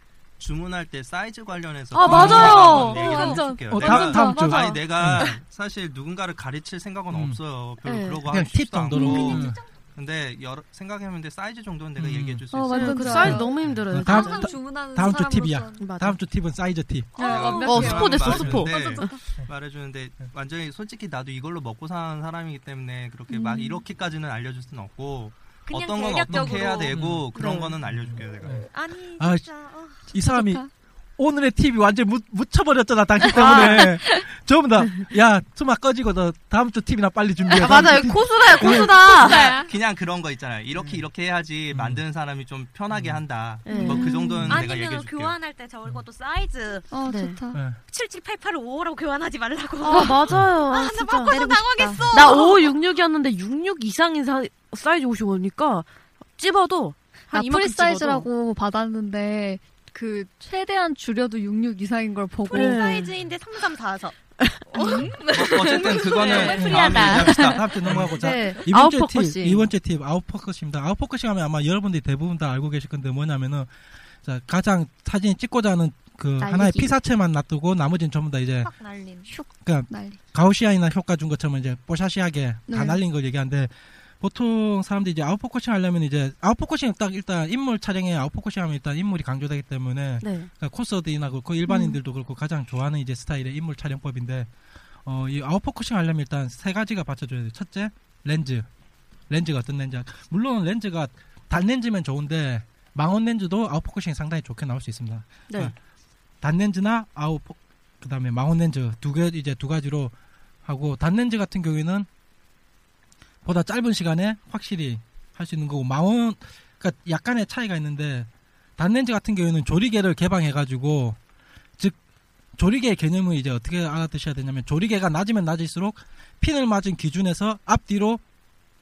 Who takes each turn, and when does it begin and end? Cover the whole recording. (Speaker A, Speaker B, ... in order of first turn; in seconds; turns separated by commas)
Speaker A: 0.4-13.7, Speaker B: 1.9-4.9, Speaker C: 2.0-2.9, Speaker D: 2.0-4.5, Speaker C: 3.7-5.3, Speaker C: 7.1-7.4, Speaker B: 7.8-8.3, Speaker C: 8.3-9.6, Speaker D: 8.9-9.4, Speaker E: 9.1-9.8, Speaker C: 12.0-12.4, Speaker D: 12.5-15.8, Speaker B: 12.7-14.6, Speaker C: 13.3-17.2, Speaker B: 15.8-16.2, Speaker D: 17.1-19.2, Speaker E: 17.2-17.8, Speaker A: 17.2-28.6, Speaker B: 17.6-19.2, Speaker C: 18.2-18.6, Speaker D: 23.3-23.8, Speaker E: 25.6-27.0, Speaker C: 26.3-27.3, Speaker B: 27.3-27.7, Speaker C: 27.8-28.6, Speaker E: 28.6-30.0, Speaker C: 29.2-29.5, Speaker C: 30.0-30.6, Speaker D: 30.1-30.7, Speaker C: 31.2-39.1, Speaker B: 33.3-33.9, Speaker B: 37.5-39.6, Speaker A: 39.0-45.4, Speaker D: 39.2-39.7, Speaker C: 41.7-42.0, Speaker C: 42.9-43.2, Speaker B: 43.6-44.3, Speaker D: 43.7-44.5, Speaker E: 44.5-47.0, Speaker D: 46.9-47.6, Speaker B: 47.0-47.4, Speaker C: 47.5-47.8, Speaker E: 47.9-52.7, Speaker B: 49.8-58.3, Speaker D: 51.3-52.4, Speaker D: 57.3-62.9, Speaker E: 62.5-64.2, Speaker B: 62.5-63.1, Speaker B: 64.4-65.1, Speaker E: 64.7-67.4, Speaker D: 64.8-65.1, Speaker A: 65.3-68.2, Speaker B: 66.2-67.4, Speaker C: 66.5-73.7, Speaker B: 68.1-69.7, Speaker C: 74.2-78.7, Speaker D: 76.4-76.9, Speaker E: 78.6-79.3, Speaker D: 79.3-80.2, Speaker C: 79.6-94.5, Speaker D: 82.7-83.0, Speaker B: 90.2-90.5, Speaker D: 91.7-92.0, Speaker C: 95.0-98.7, Speaker C: 99.3-105.7, Speaker B: 105.5-105.7, Speaker C: 106.4-112.1, Speaker C: 113.4-121.2, Speaker C: 122.5-128.2